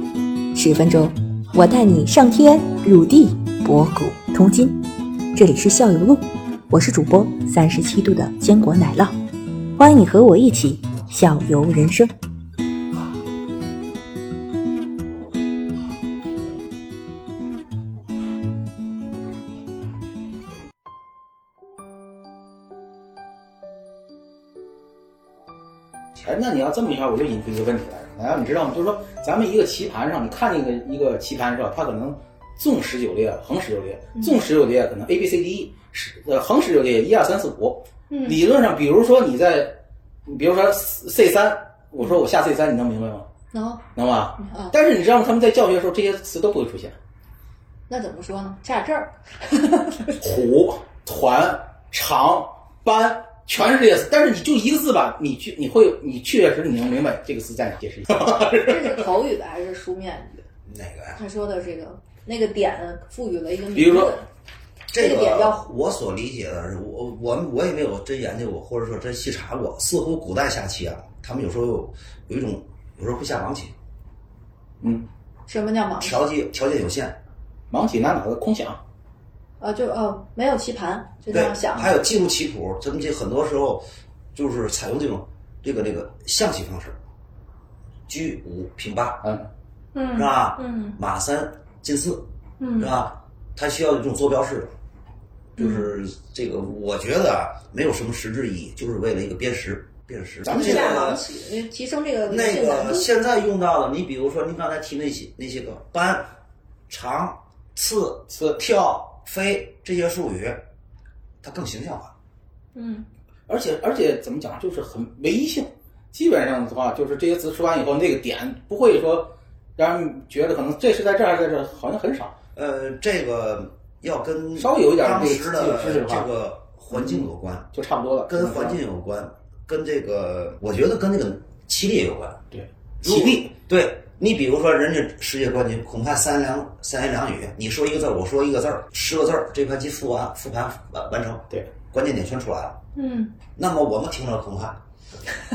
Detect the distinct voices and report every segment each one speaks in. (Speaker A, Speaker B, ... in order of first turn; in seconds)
Speaker A: 0.5-4.8, 5.3-9.2, 9.8-12.1
Speaker B: 26.1-43.2, 43.9-46.9, 50.2-59.0, 63.7-64.1, 74.8-75.1, 77.7-78.8, 89.2-89.5, 108.3-108.8, 113.5-122.3, 124.6-126.3, 126.9-128.8, 132.5-133.5
Speaker C: 38.1-38.4, 43.5-43.9, 44.4-44.7, 47.9-50.1, 58.5-60.4, 61.1-64.2, 64.9-65.6, 75.5-76.2, 79.6-82.0, 89.9-91.0, 92.6-92.9, 95.6-95.9, 100.5-103.1, 112.7-113.1, 142.9-143.3
Speaker D: 60.7-61.2, 64.9-73.7, 76.0-77.2, 81.3-83.8, 84.3-87.0, 88.1-89.2, 90.1-92.2, 92.8-94.7, 95.6-101.2, 102.2-106.3, 106.9-110.6, 111.4-112.1, 122.5-127.7, 128.2-132.4, 133.0-142.8, 143.5-144.8